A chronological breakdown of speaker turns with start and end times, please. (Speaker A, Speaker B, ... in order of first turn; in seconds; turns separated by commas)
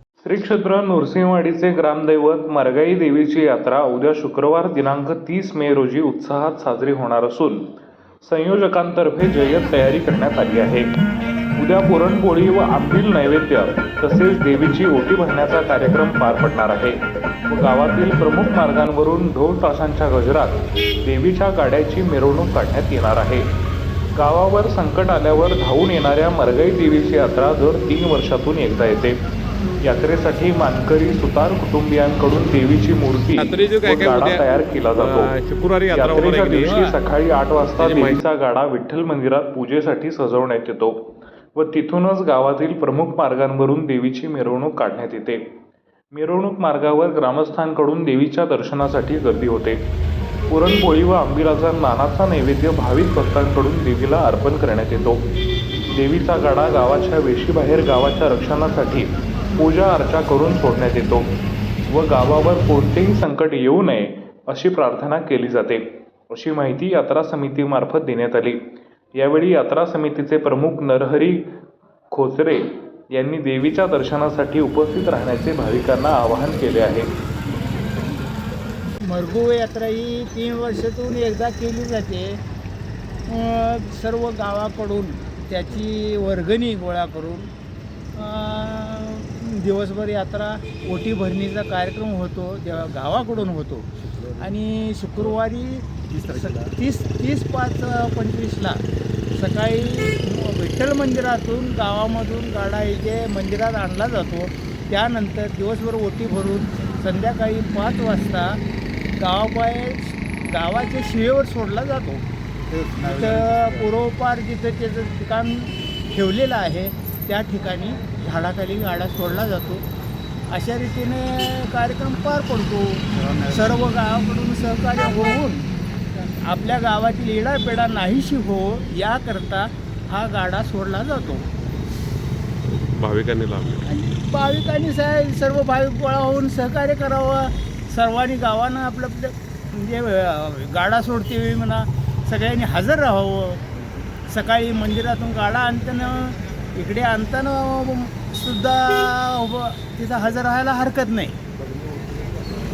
Speaker A: 0.2-7.6, Speaker A: 8.2-10.9, Speaker A: 11.6-23.5, Speaker A: 24.1-29.2, Speaker A: 29.8-35.3, Speaker B: 33.4-36.9, Speaker A: 35.9-41.0, Speaker B: 37.8-38.2, Speaker A: 41.5-45.4, Speaker A: 46.1-49.8, Speaker A: 50.5-55.2, Speaker A: 55.9-61.3, Speaker A: 61.9-68.6, Speaker A: 69.2-71.4, Speaker A: 72.1-77.1, Speaker C: 79.1-82.4, Speaker C: 83.3-87.5, Speaker C: 88.2-98.8, Speaker C: 99.3-108.6, Speaker C: 109.2-112.2, Speaker B: 112.7-113.3, Speaker C: 113.0-119.8, Speaker C: 120.5-125.7, Speaker B: 123.1-123.5, Speaker C: 126.4-131.4, Speaker B: 132.7-133.9, Speaker C: 133.8-143.6, Speaker C: 144.3-151.4